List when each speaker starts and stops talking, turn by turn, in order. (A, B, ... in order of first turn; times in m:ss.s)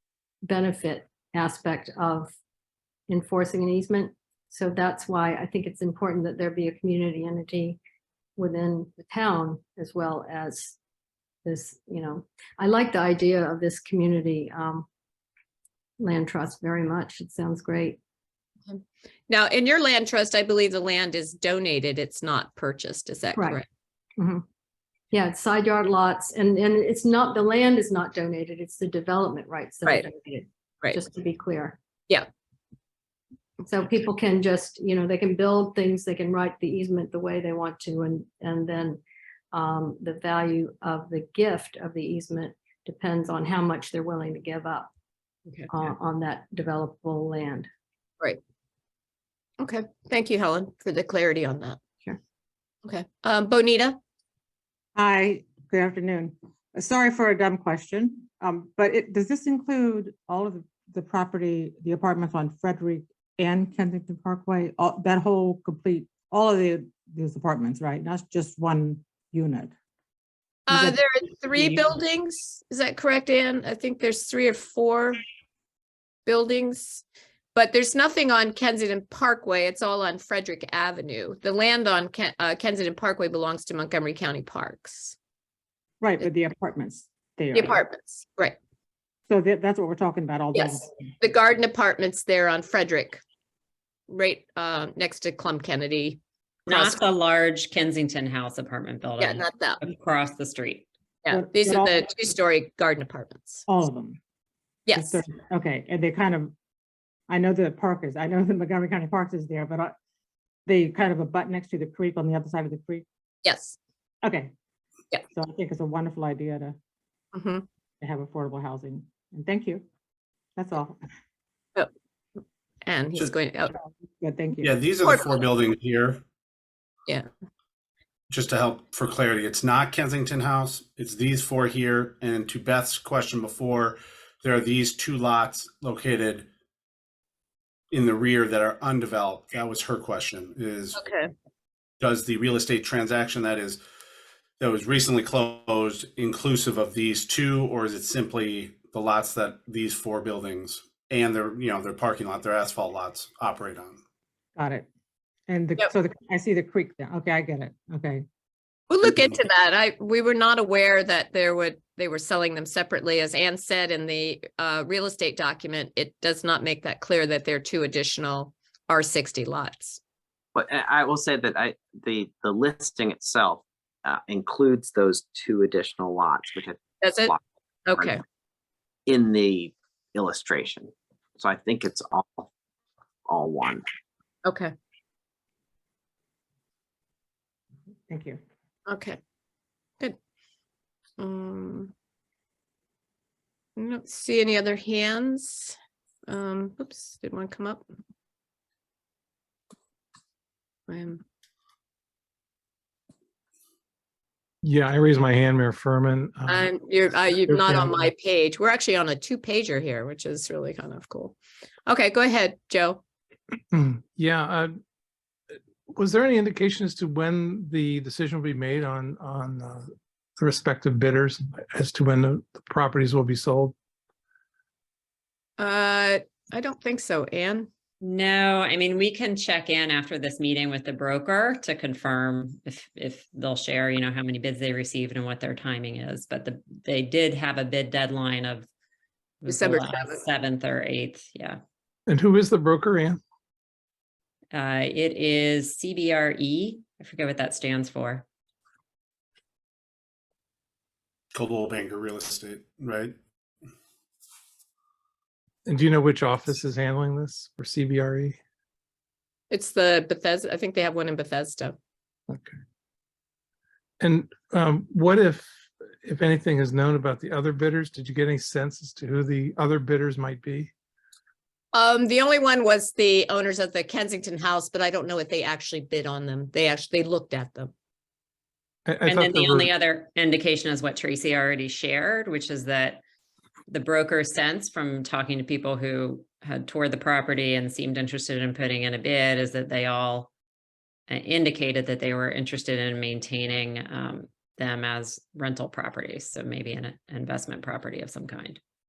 0:00.4-0:02.3 A
0:03.1-0:07.8 A
0:08.4-0:10.8 A
0:11.4-0:14.9 A
0:16.0-0:18.0 A
0:18.7-0:23.6 B
0:23.4-0:23.6 A
0:24.2-0:24.4 A
0:25.1-0:31.8 A
0:33.6-0:39.0 A
0:39.5-0:44.9 A
0:45.7-0:47.7 A
0:49.6-0:51.8 B
0:52.8-0:54.0 B
0:55.0-1:09.7 C
1:10.7-1:15.2 B
1:10.7-1:11.0 C
1:11.5-1:11.9 C
1:16.2-1:17.0 B
1:17.5-1:25.2 B
1:26.0-1:27.8 C
1:27.5-1:28.6 B
1:29.3-1:31.1 C
1:30.5-1:33.2 B
1:34.1-1:37.0 B
1:36.8-1:39.3 D
1:39.2-1:39.8 B
1:39.8-1:40.8 D
1:41.2-1:43.6 B
1:41.3-1:42.1 C
1:43.7-1:44.2 C
1:44.9-1:45.2 B
1:44.9-1:46.5 C
1:47.3-1:49.9 C
1:50.6-1:53.0 C
1:53.4-1:53.8 B
1:54.2-1:54.5 C
1:55.3-1:56.8 C
1:57.3-1:57.6 B
1:58.0-1:59.8 C
2:00.6-2:01.1 C
2:02.8-2:03.7 B
2:04.2-2:04.7 C
2:04.6-2:06.2 E
2:05.0-2:05.4 B
2:08.3-2:16.5 E
2:17.9-2:21.1 E
2:21.0-2:21.3 B
2:22.0-2:23.8 E
2:24.6-2:34.0 E
2:34.6-2:34.9 C
2:35.5-2:38.2 C
2:38.9-2:50.0 B
2:50.5-2:57.4 F
2:57.0-2:57.4 B
2:57.9-2:58.2 B
2:59.0-3:02.5 F
3:03.2-3:03.8 F
3:04.4-3:04.7 B
3:08.1-3:08.4 C
3:08.9-3:09.2 B
3:11.2-3:11.9 B
3:13.8-3:15.8 B
3:16.3-3:17.8 B
3:20.9-3:21.2 B
3:24.6-3:26.7 G
3:26.5-3:33.0 B
3:27.3-3:28.1 G
3:33.7-3:34.7 G
3:35.9-3:43.7 G
3:45.6-3:47.7 B
3:48.0-3:58.7 D
3:59.4-4:01.6 D
3:59.5-4:00.2 B
4:02.1-4:03.2 G
4:04.5-4:08.2 D
4:11.3-4:13.1 E
4:15.6-4:18.4 G
4:19.5-4:21.8 B
4:22.3-4:22.6 G
4:24.0-4:25.5 G
4:26.0-4:30.7 G
4:31.7-4:37.7 B
4:38.9-4:39.7 G
4:39.1-4:43.0 D
4:43.7-4:50.3 D
4:51.1-4:58.6 D